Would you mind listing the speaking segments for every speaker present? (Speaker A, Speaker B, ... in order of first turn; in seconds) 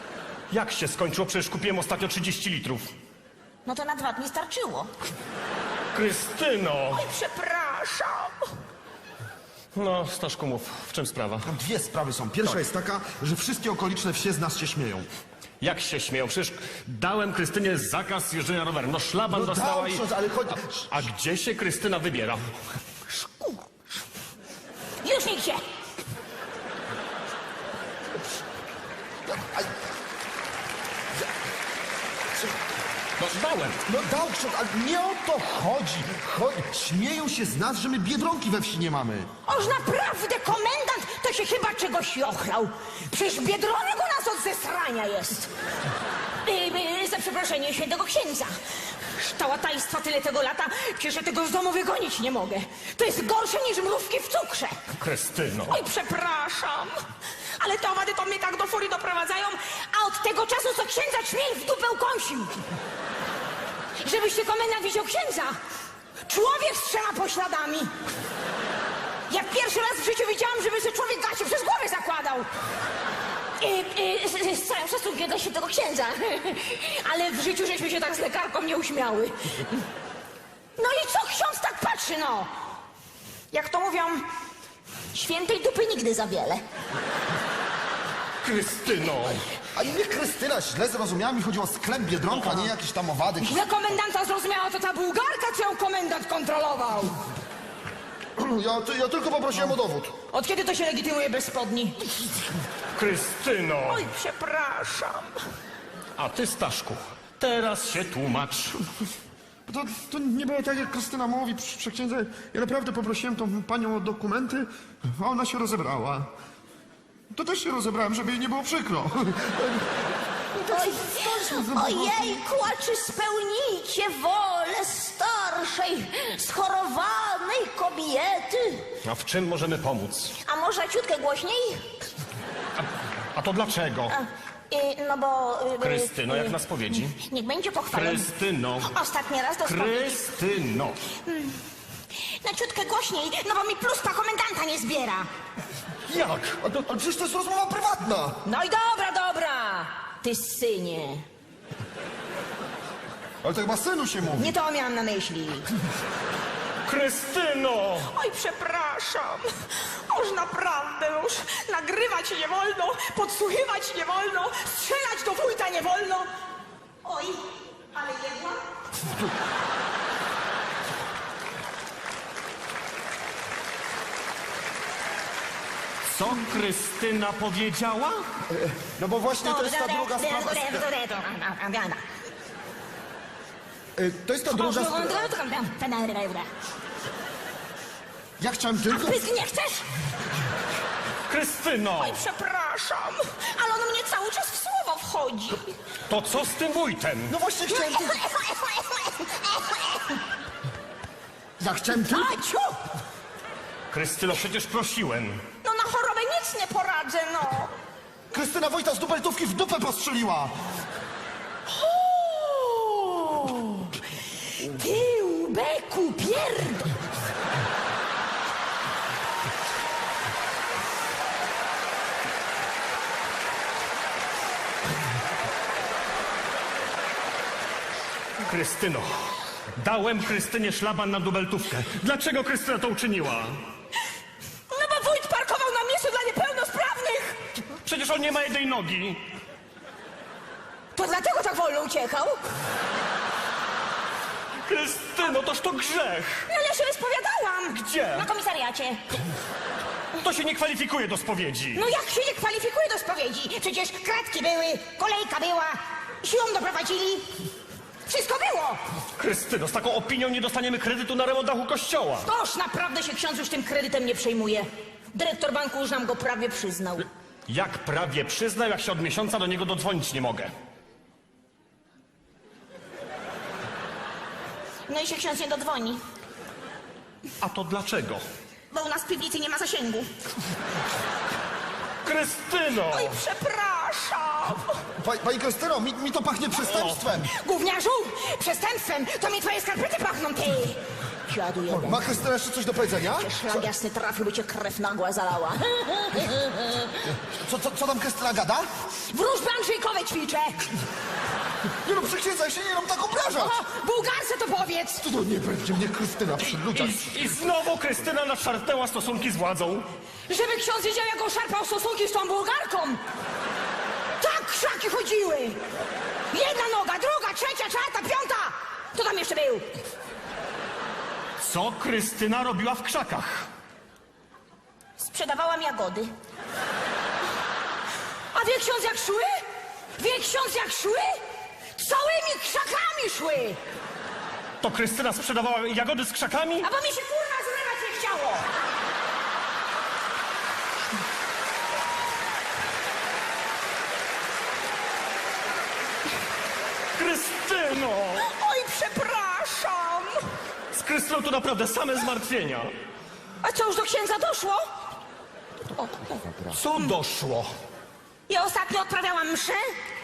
Speaker A: 0.5-2.9, 5.9-7.0, 9.7-11.5, 15.6-20.0, 20.9-22.5, 33.2-33.8, 55.0-55.8, 88.4-89.4, 92.3-92.7, 102.9-104.1, 106.2-108.9, 129.0-130.3, 133.3-134.2, 135.8-137.2, 137.9-138.9, 139.6-141.0, 146.1-146.6, 156.8-158.1, 176.0-178.2, 191.3-192.2, 196.1-197.3, 203.9-205.4, 228.4-233.6, 237.8-239.2, 244.6-246.5, 247.7-248.3, 250.1-251.9, 259.2-262.3, 267.5-270.5, 277.4-278.2, 282.0-283.2, 286.6-287.0, 306.6-309.9, 321.4-323.5, 334.6-336.7, 346.9-348.3, 350.7-352.7, 356.5-357.5
Speaker B: 3.6-4.9, 6.9-8.5, 23.1-23.6, 25.0-25.6, 39.5-45.5, 46.4-54.9, 55.7-56.9, 57.6-62.5, 64.0-65.5, 66.2-67.9, 69.3-72.5, 73.6-79.8, 80.8-82.5, 83.5-84.2, 85.1-86.6, 93.4-97.2, 100.3-102.1, 103.8-105.3, 120.7-128.9, 130.4-131.9, 134.1-138.3, 138.8-140.2, 141.2-141.6, 142.3-145.3, 148.4-151.2, 154.3-155.7, 158.1-166.3, 167.0-167.4, 167.9-168.6, 179.4-182.0, 184.5-186.5, 188.9-189.8, 192.0-195.6, 197.7-200.2, 201.9-202.7, 205.6-207.7, 211.7-214.0, 214.5-216.9, 234.7-237.4, 240.9-242.4, 246.5-249.1, 251.7-257.3, 258.1-258.8, 262.2-267.1, 274.9-276.0, 278.7-280.1, 282.9-284.8, 287.2-292.0, 293.1-296.9, 299.1-300.6, 303.1-305.0, 310.3-313.0, 314.2-315.6, 316.3-319.6, 325.0-326.1, 328.3-329.3, 330.0-331.2, 331.7-333.6, 336.6-338.4, 348.1-350.2, 353.4-354.6, 355.8-356.1, 358.3-359.7
Speaker C: 11.4-15.1, 19.3-20.9, 29.3-29.7, 33.9-39.3, 89.7-93.7, 98.4-100.1, 109.7-116.3, 117.3-119.9, 120.5-122.4, 146.6-148.4, 153.4-154.5, 178.5-180.9, 183.9-185.3, 188.4-189.2, 197.3-198.2, 201.6-202.3, 208.3-210.5, 285.0-287.3, 291.7-293.6, 297.0-298.7, 301.8-303.6, 305.0-307.2